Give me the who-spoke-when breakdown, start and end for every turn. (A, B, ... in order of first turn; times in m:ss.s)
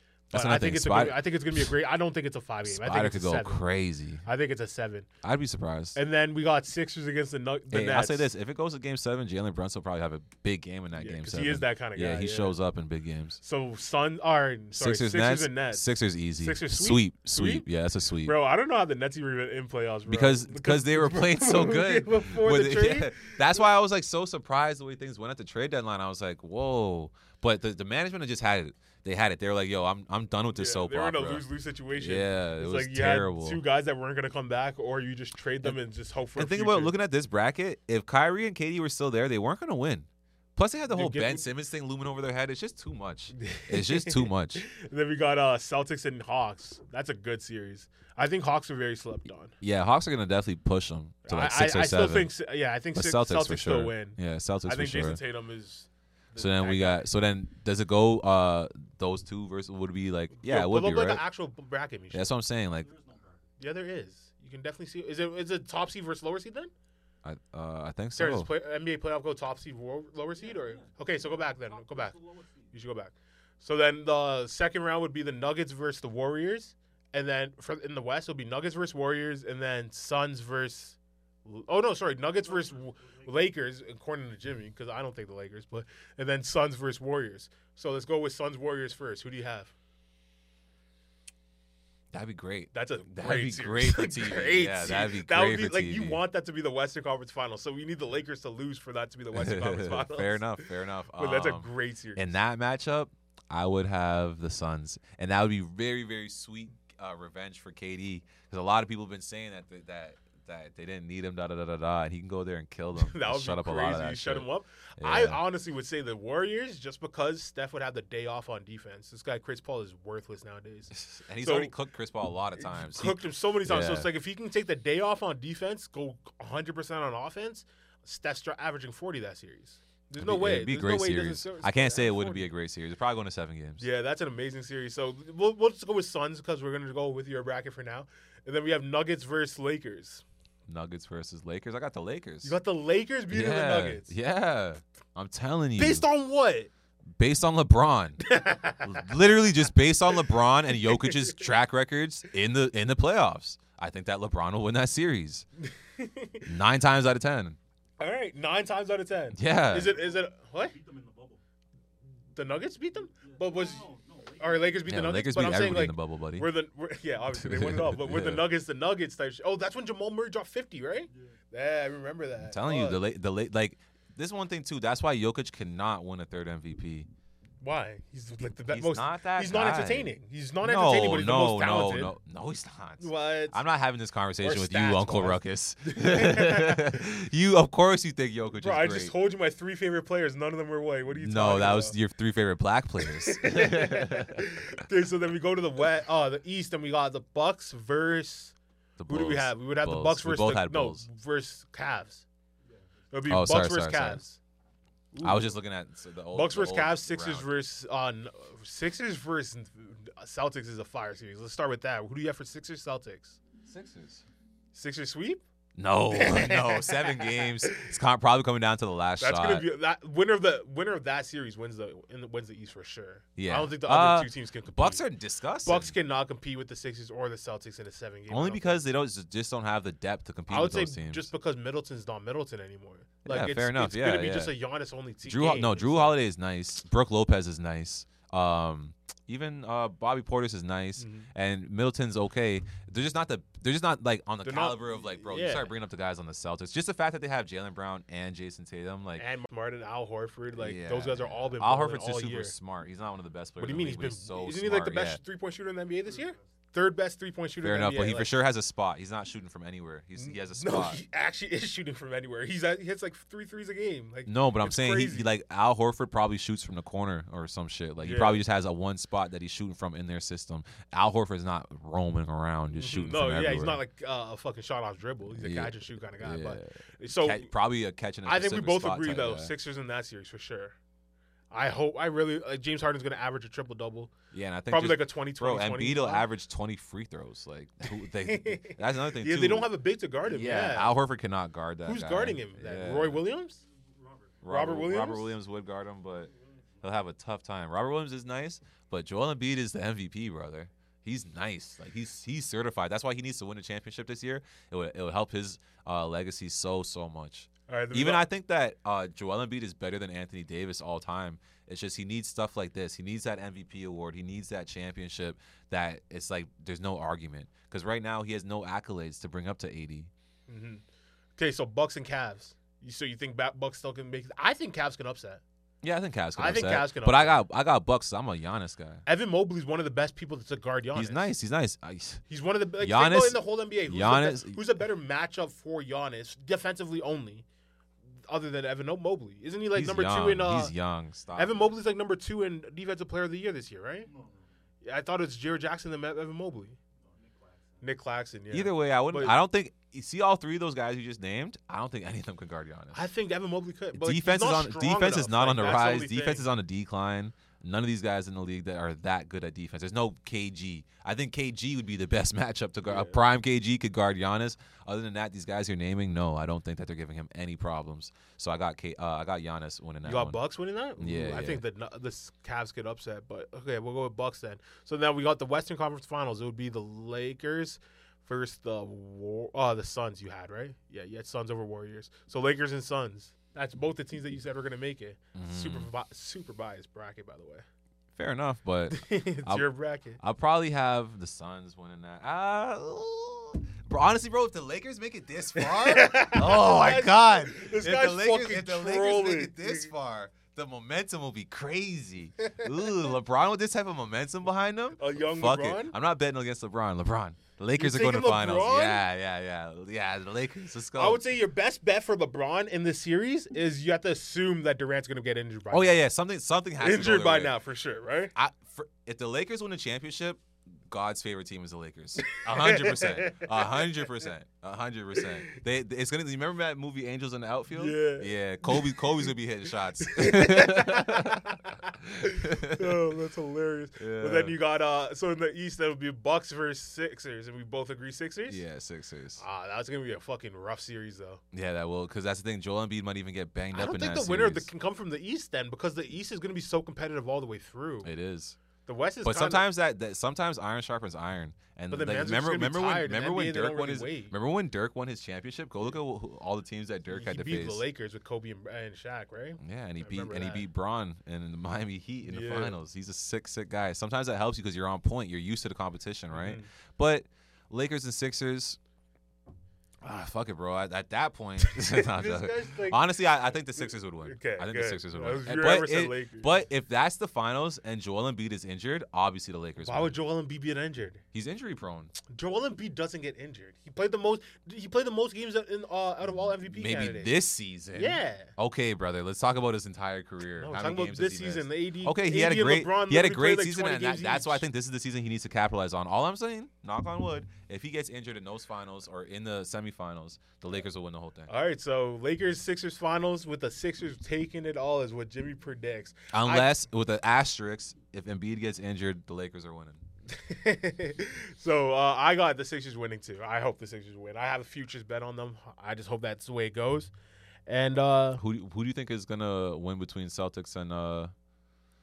0:00.3-0:01.7 A
0:00.3-0:03.6 B
0:02.6-0:04.2 A
0:04.2-0:05.1 B
0:05.2-0:06.0 A
0:05.9-0:08.2 B
0:07.7-0:13.4 A
0:10.9-0:12.5 B
0:13.4-0:15.8 B
0:14.7-0:18.4 A
0:16.4-0:17.6 B
0:18.2-0:23.4 B
0:20.1-0:31.4 A
0:30.5-0:36.9 B
0:32.0-0:33.6 A
0:36.4-0:44.6 A
0:40.9-0:41.4 B
0:43.4-0:49.5 B
0:49.6-0:52.3 A
0:51.3-0:57.0 B
0:52.9-0:55.2 A
0:56.4-1:01.2 A
1:00.4-1:02.3 B
1:02.1-1:02.9 A
1:02.8-1:03.4 C
1:03.6-1:06.7 B
1:07.2-1:08.5 A
1:08.2-1:12.2 B
1:10.4-1:12.7 C
1:12.7-1:29.7 B
1:32.1-1:36.2 A
1:32.7-1:40.6 B
1:39.3-1:54.5 A
1:41.2-1:42.3 B
1:53.0-2:01.7 B
1:55.0-1:55.4 A
2:00.9-2:04.1 A
2:02.6-2:12.5 B
2:10.2-2:13.8 A
2:13.8-2:20.2 B
2:20.7-2:22.6 A
2:22.4-2:24.1 B
2:23.3-2:26.0 A
2:25.8-2:26.7 B
2:27.2-2:35.4 A
2:28.2-2:29.1 B
2:30.8-2:31.4 B
2:35.6-2:36.5 B
2:36.4-2:37.6 A
2:38.0-2:40.8 B
2:39.3-2:39.9 A
2:40.7-2:41.4 C
2:42.3-2:53.0 B
2:43.2-2:44.8 C
2:44.9-2:46.5 A
2:47.3-2:48.5 A
2:52.4-2:57.1 A
2:57.6-3:02.1 B
2:58.7-3:09.1 A
3:03.0-3:03.6 B
3:04.4-3:07.0 B
3:08.6-3:11.9 B
3:11.1-3:14.4 A
3:13.1-3:18.5 B
3:19.0-3:21.0 A
3:19.1-3:22.2 B
3:23.1-3:24.4 B
3:23.3-3:24.2 A
3:25.1-3:25.6 B
3:25.2-3:27.5 A
3:26.3-3:33.4 B
3:33.6-3:34.2 A
3:34.7-3:35.4 B
3:35.8-3:39.6 A
3:36.1-3:37.9 B
3:39.2-3:45.0 B
3:43.4-3:45.9 A
3:45.6-3:48.8 B
3:48.3-3:51.3 A
3:50.5-3:56.2 B
3:53.2-3:54.5 A
3:55.2-4:09.2 A
4:01.0-4:01.3 B
4:04.4-4:05.7 B
4:09.2-4:12.5 B
4:10.6-4:15.2 A
4:13.6-4:18.3 B
4:17.6-4:21.0 A
4:20.2-4:25.3 B
4:24.2-4:33.8 A
4:28.0-4:28.4 B
4:32.7-4:37.5 B
4:35.4-4:39.5 A
4:38.2-4:40.8 B
4:41.5-4:44.1 B
4:44.3-4:49.7 A
4:44.7-4:46.2 B
4:47.9-4:50.9 B
4:50.2-4:53.2 A
4:51.8-4:53.6 B
4:53.8-4:54.3 C
4:54.4-5:20.1 A
4:54.5-4:55.3 B
5:07.7-5:08.3 B
5:20.5-5:20.8 B
5:21.4-5:25.4 B
5:25.8-5:29.0 A
5:26.4-5:27.4 B
5:29.0-5:31.3 B
5:30.9-5:32.2 A
5:32.3-5:37.4 B
5:32.8-5:34.6 A
5:38.3-5:40.7 B
5:39.7-5:41.6 A
5:41.3-5:44.1 B
5:44.1-5:44.4 C
5:44.8-5:46.8 B
5:47.0-5:47.8 C
5:47.8-5:49.4 B
5:48.5-5:53.0 A
5:52.9-5:56.4 B
5:53.9-6:10.4 A
6:02.9-6:03.2 B
6:10.0-6:27.6 B
6:11.0-6:11.6 A
6:25.3-6:25.9 A
6:28.2-6:29.7 A
6:28.9-6:30.2 B
6:30.2-6:51.2 A
6:35.6-6:39.9 B
6:42.4-6:43.1 B
6:45.0-6:45.9 B
6:47.8-6:49.0 B
6:50.9-6:56.0 B
6:55.7-6:57.5 A
6:56.8-6:58.3 B
6:58.3-7:13.1 A
7:02.3-7:04.1 B
7:07.7-7:09.3 B
7:10.0-7:18.6 B
7:14.0-7:14.6 A
7:18.5-7:19.4 A
7:19.4-7:21.4 B
7:21.5-7:24.7 A
7:23.7-7:28.1 B
7:28.0-7:28.6 A
7:28.8-7:29.6 B
7:29.2-7:37.8 A
7:31.9-7:34.3 B
7:37.1-7:40.6 B
7:39.6-7:48.8 A
7:42.2-7:42.7 B
7:46.3-7:46.7 B
7:50.0-8:00.1 A
7:51.6-7:53.0 B
7:53.8-7:56.5 B
7:59.8-8:01.2 B
8:01.3-8:02.1 A
8:02.3-8:07.3 B
8:06.7-8:21.5 A
8:07.9-8:08.5 B
8:10.6-8:14.6 B
8:21.5-8:26.7 B
8:26.3-8:30.0 A
8:30.3-8:37.1 B
8:37.7-8:38.4 B
8:38.4-8:41.3 A